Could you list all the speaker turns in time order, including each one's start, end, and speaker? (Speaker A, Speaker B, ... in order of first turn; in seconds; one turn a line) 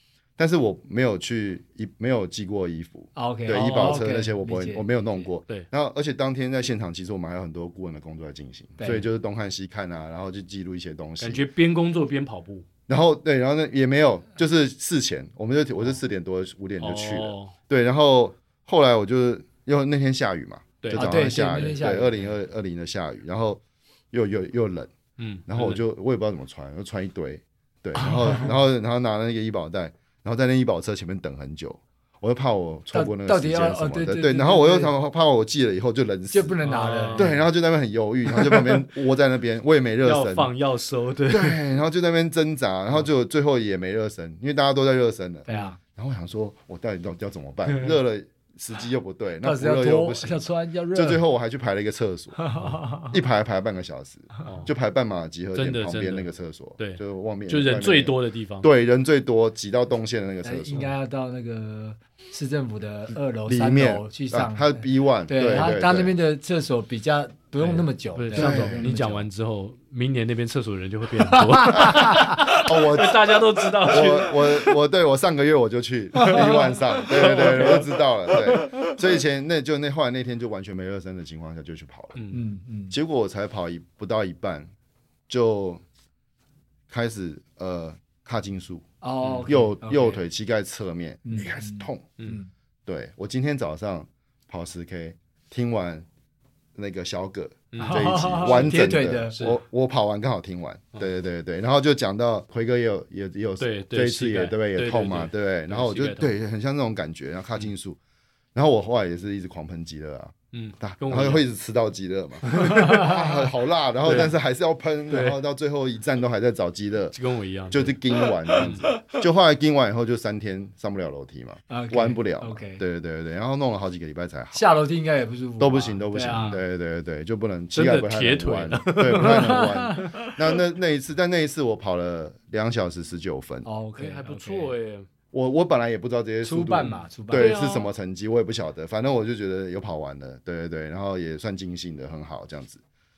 Speaker A: 0.4-11.4
Speaker B: 3.1-5.2
Speaker C: 3.5-4.0
Speaker B: 8.8-9.1
Speaker C: 11.2-12.7
Speaker A: 12.9-24.9
Speaker C: 16.8-17.5
Speaker C: 20.8-21.2
Speaker B: 20.9-22.3
Speaker C: 25.2-25.8
Speaker A: 25.5-36.6
Speaker B: 32.9-34.9
Speaker B: 36.3-37.3
Speaker C: 36.6-37.4
Speaker A: 37.1-40.5
Speaker C: 40.0-41.6
Speaker A: 41.3-60.9
Speaker B: 45.5-45.8
Speaker B: 49.4-51.2
Speaker B: 52.4-53.1
Speaker C: 54.4-54.7
Speaker C: 55.5-58.7
Speaker B: 60.4-69.3
Speaker A: 63.5-66.1
Speaker C: 67.6-74.7
Speaker A: 68.3-68.9
Speaker B: 71.2-72.5
Speaker A: 71.7-82.2
Speaker B: 76.2-76.6
Speaker C: 77.1-78.9
Speaker B: 77.3-77.6
Speaker C: 82.1-82.4
Speaker B: 82.3-82.9
Speaker A: 82.9-84.7
Speaker A: 85.3-85.8
Speaker A: 86.9-88.8
Speaker B: 89.0-90.2
Speaker C: 89.2-89.5
Speaker A: 89.4-92.1
Speaker B: 91.2-92.5
Speaker A: 92.8-96.0
Speaker A: 96.7-108.0
Speaker C: 97.7-98.7
Speaker B: 97.8-99.3
Speaker C: 103.6-106.3
Speaker A: 108.5-117.2
Speaker C: 110.5-111.4
Speaker C: 112.4-113.2
Speaker C: 114.0-114.3
Speaker C: 115.1-115.4
Speaker C: 117.1-118.0
Speaker A: 117.7-124.6
Speaker C: 118.5-118.9
Speaker B: 121.7-122.8
Speaker B: 124.5-126.5
Speaker A: 125.6-133.7
Speaker C: 126.3-126.6
Speaker C: 127.7-130.3
Speaker B: 129.1-130.1
Speaker B: 133.6-134.7
Speaker C: 133.9-135.1
Speaker A: 135.3-142.8
Speaker B: 136.4-137.6
Speaker C: 137.3-137.9